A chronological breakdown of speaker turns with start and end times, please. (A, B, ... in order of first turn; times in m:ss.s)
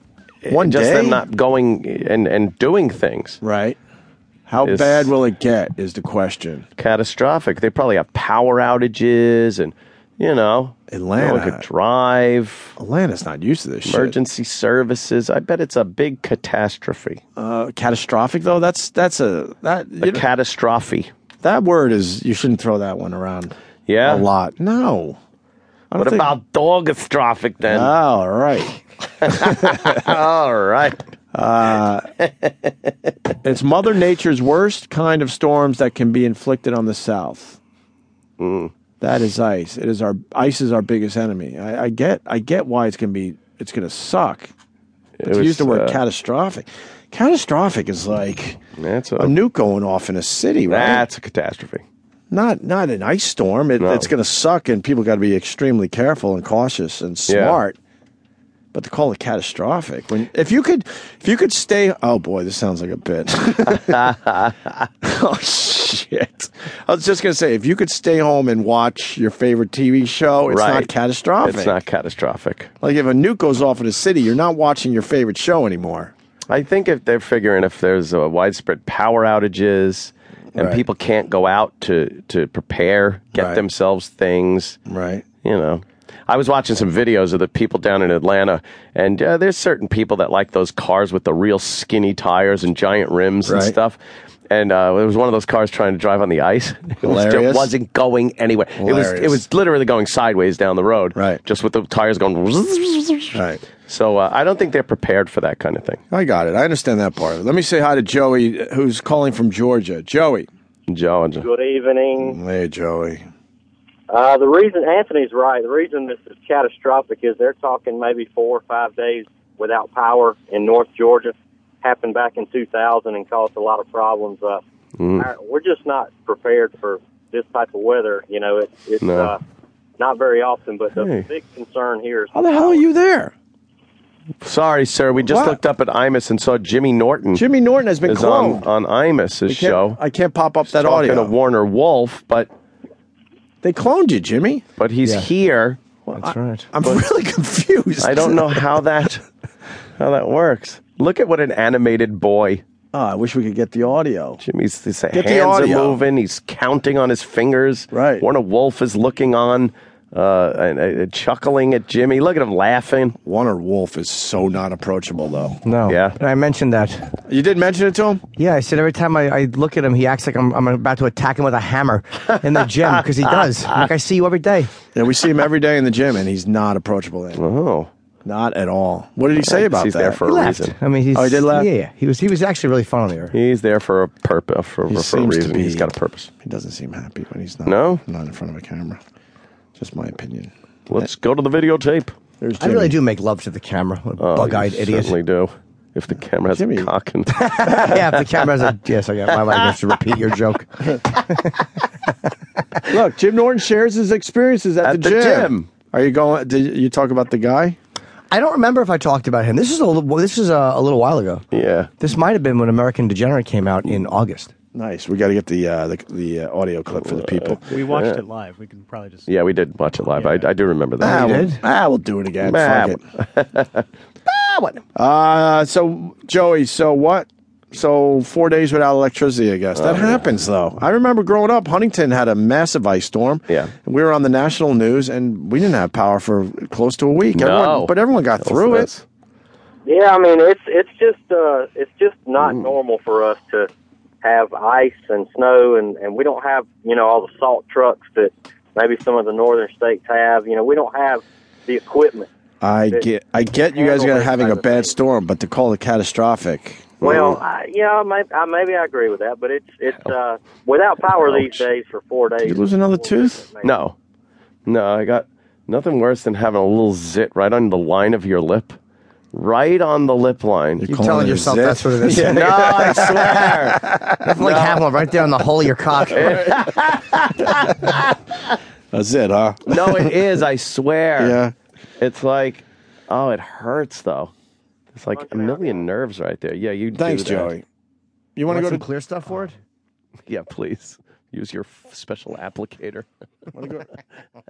0:00.4-0:03.4 A
0:00.5-0:01.2 B
0:03.4-0:03.8 B
0:04.5-0:06.6 B
0:04.6-0:05.1 A
0:06.8-0:12.7 A
0:10.9-0:11.6 B
0:12.8-0:14.2 B
0:13.8-0:17.2 A
0:17.4-0:20.2 B
0:20.0-0:21.1 A
0:21.4-0:25.2 B
0:23.9-0:24.2 A
0:25.9-0:26.3 B
0:26.0-0:27.9 A
0:27.7-0:30.0 B
0:29.2-0:31.0 A
0:31.3-0:32.1 B
0:32.2-0:32.9 A
0:33.4-0:37.6 B
0:38.4-0:38.7 A
0:39.0-0:44.5 B
0:45.2-0:46.0 A
0:45.2-0:48.6 B
0:48.8-0:49.3 A
0:49.2-0:51.1 B
0:50.7-0:51.8 A
0:52.3-0:57.8 B
0:53.8-0:54.1 A
0:57.3-0:57.6 A
0:58.7-1:04.1 B
1:03.7-1:04.7 A
1:05.0-1:11.8 B
1:10.5-1:10.9 A
1:11.4-1:12.7 A
1:12.8-1:16.1 B
1:16.5-1:24.8 A
1:20.5-1:20.8 B
1:23.3-1:23.6 B
1:24.9-1:25.2 B
1:25.4-1:34.0 A
1:33.4-1:33.8 B
1:34.5-1:46.0 A
1:37.0-1:37.7 B
1:38.8-1:39.4 B
1:41.1-1:41.4 B
1:43.3-1:43.6 B
1:46.1-1:50.5 B
1:50.9-1:51.5 A
1:51.4-1:52.4 C
1:52.2-1:53.2 B
1:54.1-2:04.6 C
2:05.0-2:05.3 A
2:05.2-2:09.4 C
2:09.0-2:09.3 A
2:10.0-2:12.8 C
2:11.0-2:11.2 A
2:12.3-2:13.3 B
2:14.4-2:17.4 A
2:15.2-2:15.6 B
2:17.3-2:18.7 B
2:18.0-2:20.0 A
2:19.5-2:21.3 B
2:20.6-2:22.5 A
2:23.6-2:24.6 B
2:24.8-2:27.0 A
2:26.2-2:26.7 D
2:26.2-2:28.8 B
2:28.0-2:29.2 A
2:30.0-2:32.6 A
2:32.9-2:34.4 B
2:34.4-2:43.2 A
2:35.1-2:36.0 B
2:37.9-2:38.2 B
2:43.2-2:45.6 B
2:45.6-2:47.2 D
2:45.9-2:46.2 A
2:47.3-2:48.2 B
2:48.4-2:54.8 D
2:54.9-2:57.4 B
2:57.4-2:57.9 A
2:58.2-3:00.2 B
2:59.4-3:00.8 A
3:00.2-3:03.3 D
3:01.1-3:01.7 B
3:03.3-3:06.3 A
3:04.9-3:05.9 B
3:06.4-3:09.0 B
3:07.6-3:08.0 A
3:09.8-3:11.1 B
3:10.9-3:12.1 A
3:12.4-3:13.0 B
3:12.6-3:15.2 D
3:14.2-3:18.1 A
3:16.5-3:16.9 B
3:17.3-3:22.3 D
3:19.3-3:19.6 A
3:22.9-3:27.8 B
3:24.8-3:25.7 A
3:28.3-3:31.4 D
3:31.5-3:31.9 A
3:32.0-3:34.5 D
3:34.7-3:37.7 B
3:36.9-3:38.2 A
3:37.6-3:39.3 E
3:39.3-3:41.5 A
3:40.0-3:40.6 E
3:41.0-3:41.6 D
3:41.0-3:43.0 B
3:42.4-3:43.8 A
3:44.3-3:44.8 D
3:44.9-3:58.9 B
3:49.7-3:50.3 A
3:57.3-3:59.0 A
3:59.8-4:03.7 C
4:02.4-4:02.7 A
4:04.2-4:12.3 C
4:12.6-4:17.2 B
4:13.7-4:14.9 C
4:17.0-4:17.4 A
4:17.0-4:23.8 C
4:21.2-4:21.6 B
4:22.4-4:23.4 B
4:23.6-4:24.0 A
4:24.6-4:28.8 A
4:29.3-4:30.9 A
4:30.8-4:34.1 B
4:30.9-4:33.0 D
4:32.1-4:34.9 A
4:34.2-4:36.6 D
4:36.1-4:38.0 A
4:37.6-4:38.0 B
4:38.9-4:40.2 B
4:39.7-4:41.4 A
4:41.2-4:41.5 B
4:42.0-4:44.3 A
4:44.9-4:47.5 A
4:45.1-4:45.9 C
4:46.9-4:47.6 B
4:48.4-4:48.8 B
4:48.5-4:49.6 D
4:50.3-4:53.1 A
4:53.5-4:53.9 B